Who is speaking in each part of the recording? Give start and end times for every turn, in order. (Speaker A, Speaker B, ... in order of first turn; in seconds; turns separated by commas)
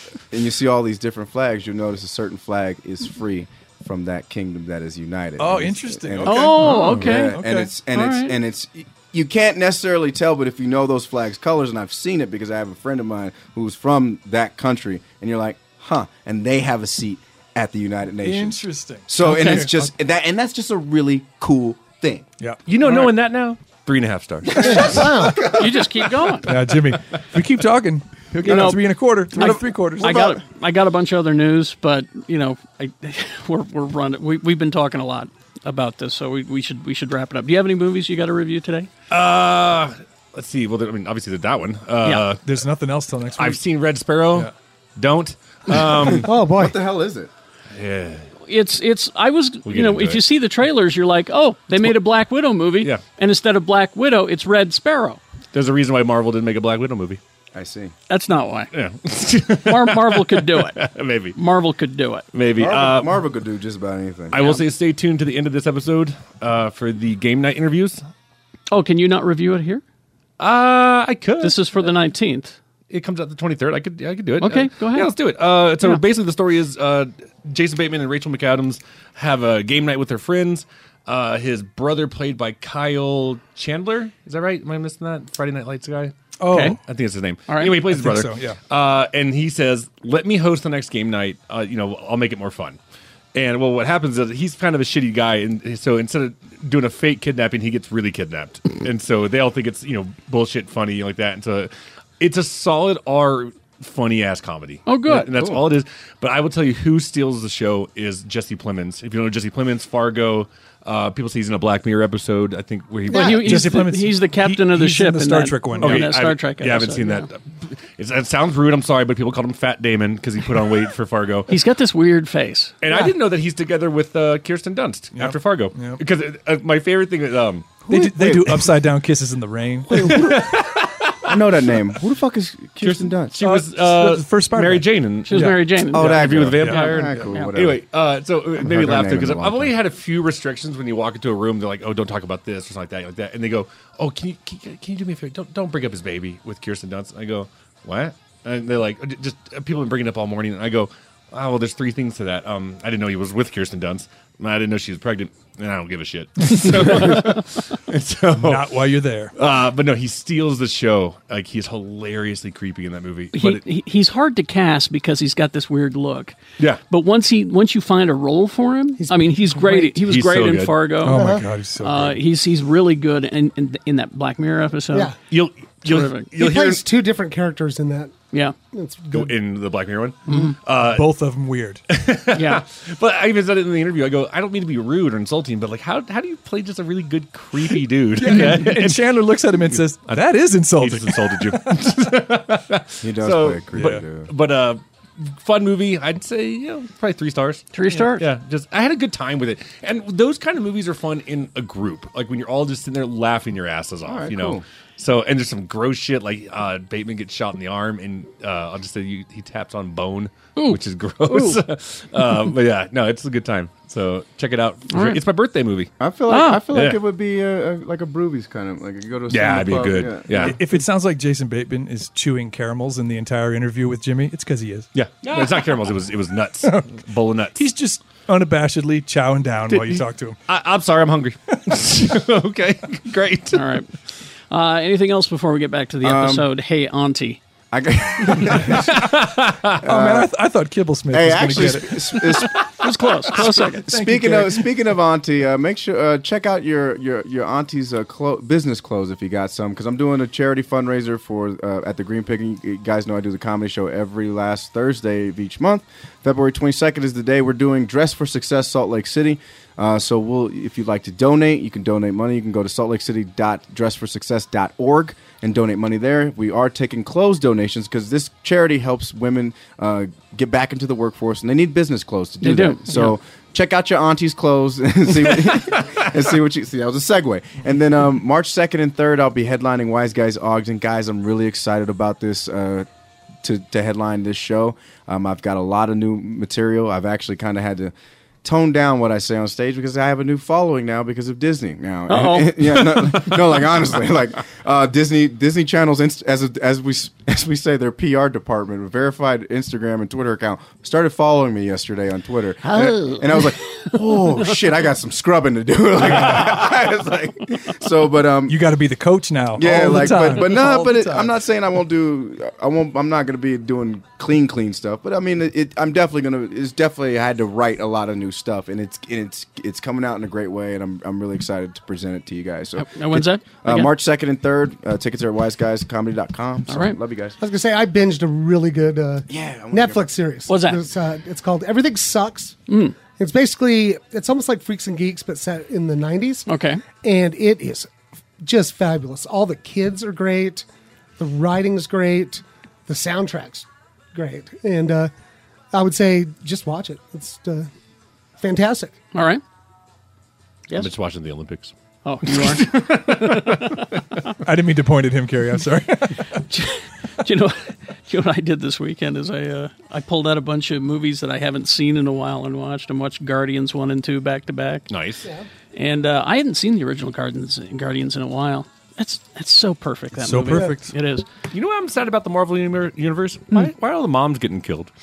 Speaker A: 0.3-22.3, Speaker B: 5.4-7.8, Speaker C: 6.2-7.4, Speaker C: 7.9-8.3, Speaker B: 18.2-19.9, Speaker B: 22.4-23.1, Speaker D: 22.6-25.2, Speaker E: 24.6-25.5, Speaker C: 24.6-26.6, Speaker B: 26.4-30.2, Speaker C: 28.4-38.9, Speaker A: 30.0-30.4, Speaker D: 39.1-42.5, Speaker B: 42.4-43.6, Speaker D: 43.3-46.3, Speaker A: 46.1-47.3, Speaker E: 46.2-46.8, Speaker D: 47.7-48.3, Speaker C: 48.4-55.2, Speaker D: 49.6-50.2, Speaker D: 55.5-57.2, Speaker A: 57.5-57.9, Speaker C: 58.1-58.7, Speaker D: 58.7-61.4, Speaker C: 59.6-60.8, Speaker C: 61.3-62.3, Speaker D: 62.3-63.2, Speaker A: 62.5-64.4, Speaker D: 64.3-68.0, Speaker C: 64.3-64.6, Speaker C: 68.7-69.8, Speaker D: 70.4-71.9, Speaker C: 71.4-72.5, Speaker D: 72.9-92.8, Speaker C: 74.4-75.1, Speaker B: 86.4-86.8, Speaker C: 86.5-86.8, Speaker C: 87.5-87.8, Speaker B: 87.8-88.6, Speaker D: 93.3-113.8, Speaker C: 104.8-105.3, Speaker A: 105.3-105.6, Speaker E: 113.1-113.5, Speaker C: 113.1-117.3, Speaker B: 113.4-116.1, Speaker D: 115.8-121.6, Speaker C: 121.5-122.7, Speaker D: 122.8-127.8, Speaker E: 122.9-123.1, Speaker B: 125.1-126.0, Speaker A: 127.8-128.7, Speaker B: 127.9-130.5, Speaker A: 129.9-130.5, Speaker D: 129.9-131.1, Speaker A: 131.2-133.4, Speaker D: 132.8-158.8, Speaker B: 133.4-135.7, Speaker C: 135.2-137.5, Speaker A: 135.9-137.8, Speaker A: 138.6-139.7, Speaker B: 156.7-157.2, Speaker B: 158.3-159.3, Speaker D: 159.3-163.6, Speaker C: 163.3-166.4, Speaker C: 166.9-175.1, Speaker E: 169.0-169.9, Speaker D: 170.0-170.8, Speaker B: 171.0-172.2, Speaker E: 171.1-171.5, Speaker D: 175.3-176.8, Speaker C: 175.8-176.3, Speaker E: 176.3-178.2, Speaker E: 178.7-179.3, Speaker D: 179.1-181.1, Speaker C: 180.3-180.6, Speaker B: 180.8-181.8, Speaker D: 181.9-190.2, Speaker C: 182.3-182.6, Speaker B: 188.2-191.6, Speaker D: 190.8-215.9, Speaker A: 193.0-194.3, Speaker B: 193.7-194.0, Speaker C: 197.7-198.2, Speaker A: 204.1-204.6, Speaker C: 210.6-211.6, Speaker C: 214.9-215.2, Speaker A: 216.0-220.6, Speaker C: 216.3-216.6, Speaker D: 216.7-217.0, Speaker D: 219.3-220.6, Speaker B: 220.3-224.9, Speaker D: 224.9-227.7, Speaker B: 226.6-227.0, Speaker B: 227.6-230.4, Speaker D: 229.7-233.6, Speaker C: 233.5-233.9, Speaker C: 234.5-237.4, Speaker A: 236.0-236.5, Speaker A: 237.7-239.1, Speaker D: 238.7-239.7, Speaker A: 239.8-240.3, Speaker B: 239.8-242.4, Speaker A: 241.1-242.7, Speaker C: 242.8-243.9, Speaker B: 243.3-244.7, Speaker A: 243.4-282.9, Speaker C: 272.4-273.1, Speaker A: 283.4-287.9, Speaker A: 288.4-308.6, Speaker C: 292.1-292.6, Speaker C: 302.8-303.1, Speaker B: 306.0-306.6, Speaker B: 308.5-310.9, Speaker A: 309.6-327.4, Speaker C: 322.8-323.9, Speaker C: 326.7-327.0, Speaker E: 327.4-337.9, Speaker A: 329.3-330.1, Speaker C: 330.5-330.8, Speaker C: 332.7-332.9, Speaker C: 336.5-336.8, Speaker E: 338.4-340.6, Speaker E: 341.2-345.1, Speaker E: 345.7-347.7, Speaker E: 348.4-349.0, Speaker C: 349.1-349.4, Speaker D: 350.7-351.7, Speaker C: 352.0-353.8, Speaker D: 352.2-353.7, Speaker B: 354.4-356.3, Speaker C: 356.5-364.9, Speaker D: 364.9-365.3, Speaker C: 365.7-371.2, Speaker B: 370.1-370.9, Speaker D: 371.5-374.9